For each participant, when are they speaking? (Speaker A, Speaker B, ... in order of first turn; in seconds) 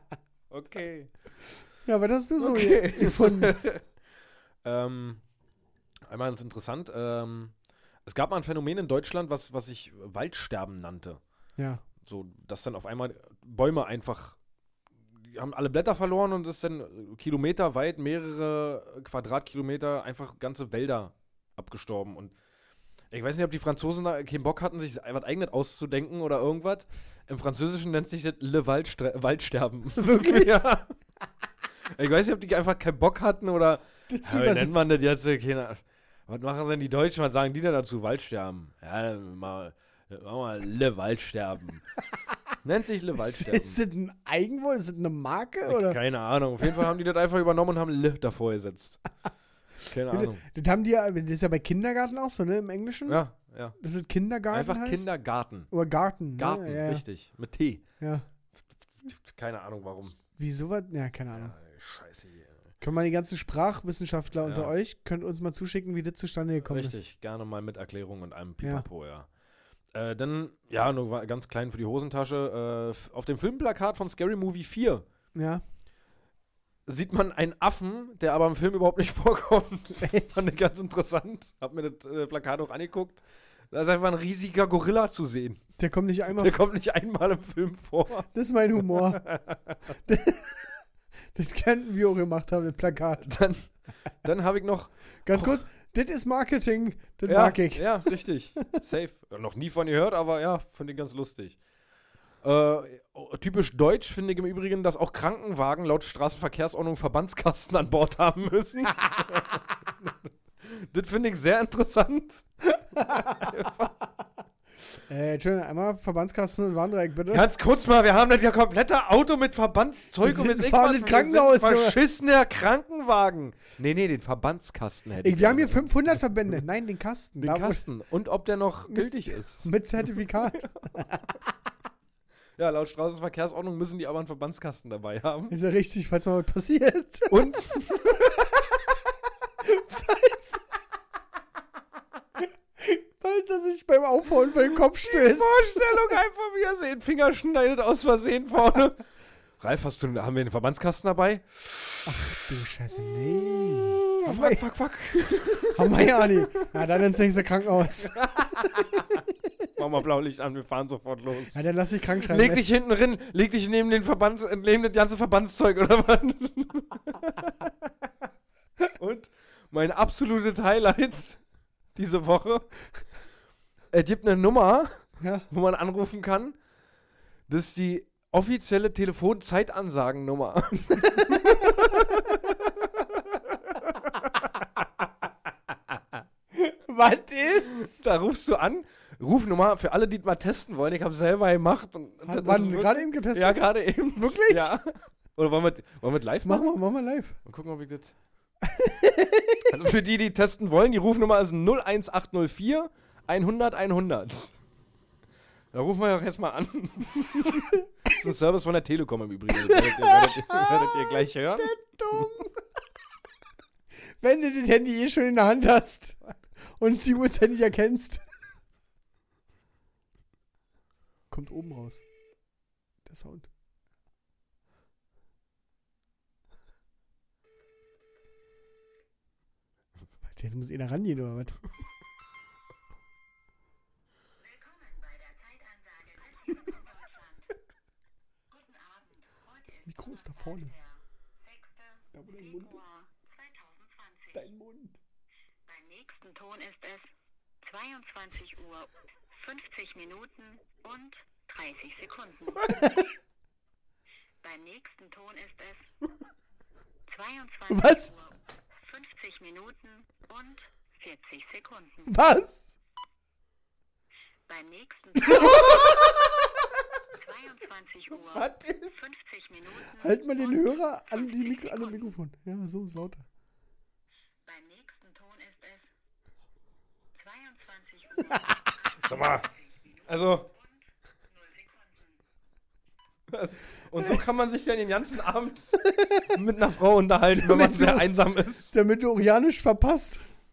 Speaker A: 0.5-1.1, 2.4-3.9, 4.6-5.2, 6.0-7.5, 8.0-11.2, 12.0-14.4, 15.2-22.3, 23.1-30.9, 31.8-41.8, 42.6-43.8, 45.6-49.0, 49.9-50.4, 53.0-53.8, 54.5-55.7, 56.4-57.8, 59.0-60.2, 61.3-62.7, 64.4-64.7, 66.7-69.3, 69.9-75.0, 76.8-85.6, 86.4-88.3, 88.8-89.8, 93.2-93.7, 94.2-95.6, 97.2-101.6, 102.4-112.4, 113.0-113.9, 117.3-126.1, 127.4-130.8, 132.6-135.5, 137.3-138.4, 144.9-149.0, 149.6-152.1, 154.2-156.4, 158.0-159.1, 159.8-161.6, 162.2-167.7, 168.9-171.4, 171.9-172.7, 173.9-176.6, 177.5-184.3, 187.7-196.7, 197.4-198.1, 199.7-204.5, 205.7-212.2, 279.0-279.5, 280.1-280.5, 283.3-288.7
Speaker B: 1.8-3.5, 11.6-11.8, 30.0-30.6, 34.1-34.9, 43.1-46.0, 50.1-53.2, 53.8-55.1, 55.7-57.0, 58.0-58.2, 60.4-61.5, 62.8-67.0, 75.3-75.6, 85.8-86.6, 88.3-89.2, 90.0-90.8, 91.3-93.3, 95.2-98.6, 113.0-113.5, 115.1-117.5, 120.2-122.0, 125.2-127.8, 128.9-131.3, 135.5-137.6, 139.6-140.6, 142.8-146.1, 152.1-154.6, 155.7-158.8, 161.5-162.8, 175.2-175.5, 180.9-181.8, 186.5-188.1, 192.2-194.8, 196.4-197.4, 198.6-199.6, 209.5-212.6, 214.2-216.2, 216.8-218.2, 221.3-222.0, 223.1-223.5, 230.2-231.6, 239.9-240.7, 242.1-242.8, 244.3-244.9, 252.7-253.1, 257.7-258.1, 262.1-262.7, 265.2-266.2, 269.9-273.2, 285.9-286.3, 287.3-290.2
Speaker C: 234.4-237.5, 238.5-244.5, 245.7-247.1, 247.6-252.8, 254.4-255.8, 257.1-262.1, 264.5-266.1, 267.1-272.1, 274.4-275.9, 277.1-280.8, 281.3-282.2